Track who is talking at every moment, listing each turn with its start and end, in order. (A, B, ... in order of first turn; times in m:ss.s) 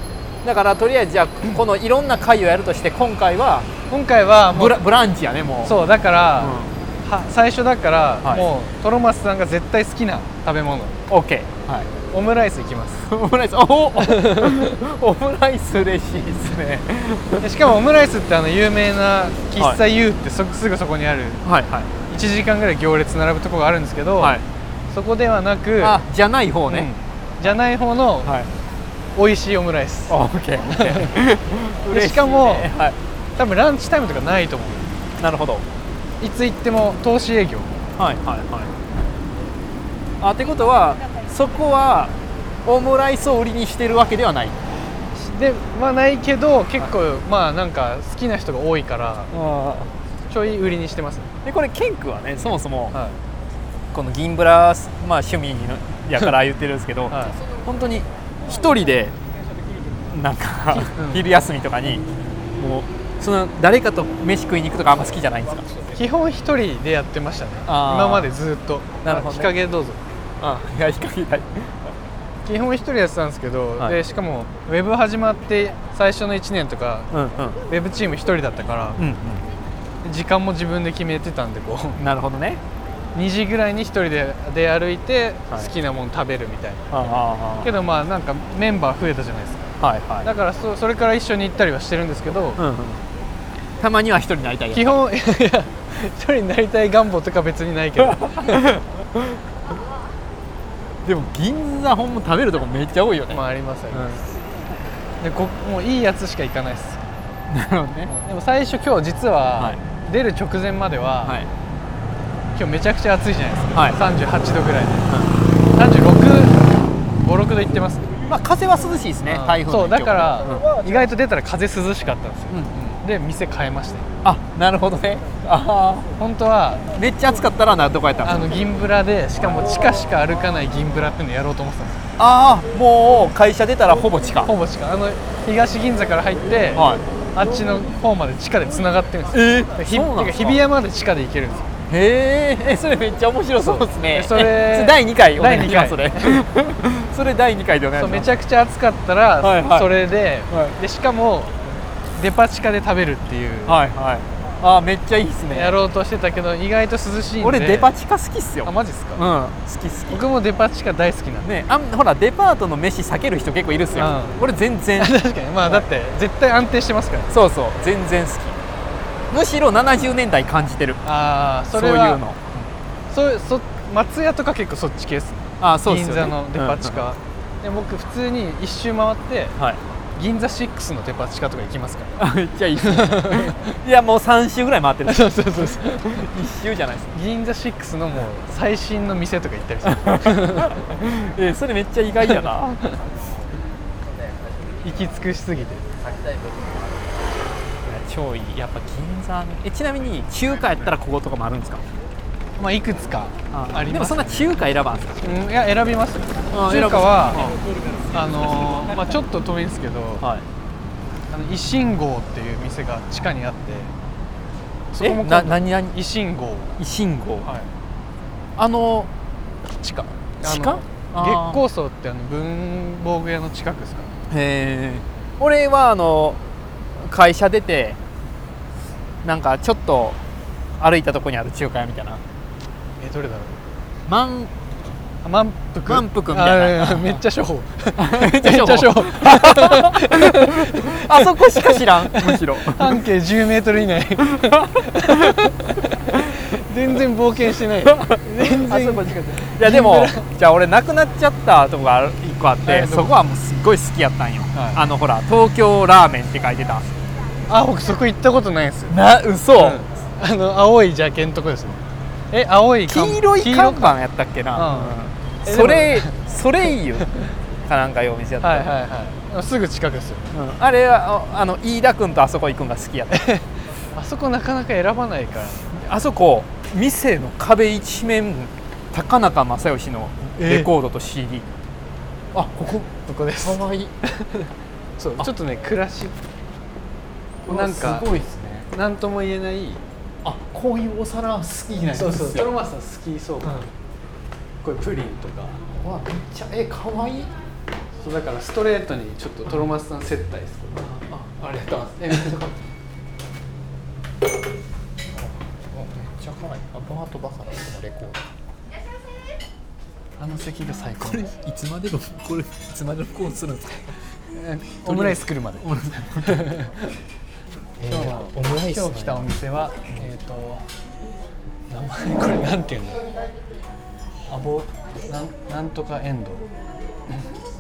0:00.4-0:03.7 A
0:03.9-0:04.8 B
0:04.5-0:05.8 A
0:05.6-0:11.0 B
0:06.4-0:06.8 A
0:08.2-0:08.5 A
0:11.1-0:11.9 A
0:12.0-0:13.1 B
0:13.0-0:17.5 A
0:14.0-0:14.8 B
0:17.4-0:21.4 B
0:21.4-0:21.9 A
0:22.1-0:26.0 B
0:24.2-0:24.5 A
0:25.8-0:26.9 A
0:26.7-0:28.4 B
0:28.2-0:28.5 A
0:29.2-0:31.2 B
0:30.1-0:33.0 A
0:31.9-0:32.7 B
0:33.4-0:35.0 B
0:35.2-0:35.7 A
0:36.2-0:37.8 B
0:38.0-0:38.8 A
0:40.2-0:44.6 A
0:45.2-0:49.3 B
0:49.3-0:49.9 A
0:50.3-0:51.3 B
0:51.4-0:53.0 A
0:52.9-0:53.2 B
0:53.9-0:59.2 A
0:57.1-0:57.4 B
1:00.1-1:02.1 A
1:00.7-1:01.3 B
1:02.6-1:05.8 A
1:05.9-1:10.0 B
1:07.7-1:08.3 A
1:09.0-1:09.5 A
1:10.4-1:11.9 A
1:12.4-1:17.1 B
1:17.1-1:17.6 A
1:17.7-1:19.0 B
1:19.0-1:19.5 A
1:20.0-1:22.0 B
1:22.0-1:22.6 A
1:23.2-1:32.6 B
1:26.9-1:27.7 A
1:29.8-1:30.3 A
1:32.6-1:33.0 A
1:33.8-1:35.0 A
1:34.7-1:38.6 B
1:38.0-1:39.4 A
1:41.0-1:44.2 A
1:43.3-1:44.3 B
1:45.2-1:47.1 B
1:47.5-1:48.1 A
1:48.1-1:51.4 B
1:51.2-1:51.5 A
1:52.6-1:58.1 B
1:53.7-1:54.1 A
1:55.1-1:55.4 A
1:58.3-2:00.7 A
1:59.3-2:04.1 B
2:02.5-2:02.9 A
2:04.2-2:06.1 A
2:06.2-2:06.8 B
2:06.9-2:08.6 A
2:08.2-2:12.1 B
2:12.2-2:14.5 A
2:14.4-2:21.7 B
2:16.8-2:17.0 A
2:19.3-2:20.6 A
2:21.9-2:28.3 A
2:23.6-2:26.4 B
2:28.0-2:31.6 B
2:29.4-2:29.9 A
2:30.5-2:30.8 A
2:32.2-2:33.8 B
2:33.7-2:35.8 A
2:35.5-2:37.9 B
2:37.4-2:40.3 A
2:38.6-2:39.2 B
2:40.1-2:41.5 B
2:41.4-2:45.9 A
2:44.0-2:44.4 B
2:45.0-2:47.4 B
2:47.3-2:48.6 A
2:49.3-2:51.0 A
2:51.0-2:52.2 B
2:51.7-2:52.7 A
2:53.1-2:59.6 B
2:55.6-2:57.0 A
2:59.6-2:59.8 A
3:00.2-3:02.2 B
3:02.2-3:07.2 A
3:02.8-3:03.7 B
3:05.1-3:06.3 B
3:07.1-3:10.8 B
3:09.9-3:13.0 A
3:14.8-3:15.9 B
3:17.8-3:21.9 A
3:22.6-3:24.6 B
3:23.5-3:25.3 A
3:25.2-3:27.5 B
3:26.5-3:27.6 A
3:28.1-3:30.3 B
3:30.2-3:30.5 A
3:31.3-3:33.9 B
3:34.9-3:36.8 B
3:35.0-3:36.0 A
3:36.8-3:37.5 A
3:38.6-3:39.1 A
3:39.8-3:44.1 B
3:40.4-3:41.6 A
3:44.3-3:46.4 A
3:47.0-3:48.0 A
3:49.2-3:50.2 A
3:50.8-3:52.2 A
3:53.0-3:53.6 B
3:54.1-3:54.5 A
3:55.2-4:10.3 B
3:55.9-3:57.2 A
3:58.0-4:03.0 A
4:04.4-4:05.5 A
4:07.8-4:16.9 A
4:12.6-4:13.1 B
4:14.5-4:14.8 B
4:17.5-4:19.0 B
4:18.9-4:19.8 A
4:19.6-4:24.0 B
4:22.9-4:28.7 A
4:24.5-4:26.2 B
4:28.4-4:30.3 B
4:30.3-4:33.3 A
4:33.1-4:35.8 B
4:35.7-4:41.5 A
4:40.4-4:40.7 B
4:42.3-4:44.0 A
4:43.1-4:46.2 B
4:47.5-4:48.7 A
4:47.5-4:48.1 B
4:48.7-4:49.8 B
4:50.2-4:52.5 A
4:51.9-4:53.7 B
4:53.4-4:53.7 A
4:54.6-4:55.6 B
4:55.7-4:57.3 A
4:58.0-5:00.9 B
5:00.8-5:02.6 A
5:01.8-5:02.4 B
5:05.1-5:08.2 A
5:10.2-5:11.3 B
5:11.0-5:14.0 A
5:14.3-5:16.9 B
5:14.8-5:16.6 A
5:17.8-5:19.3 A
5:17.9-5:20.7 B
5:21.7-5:23.0 B
5:24.3-5:26.5 B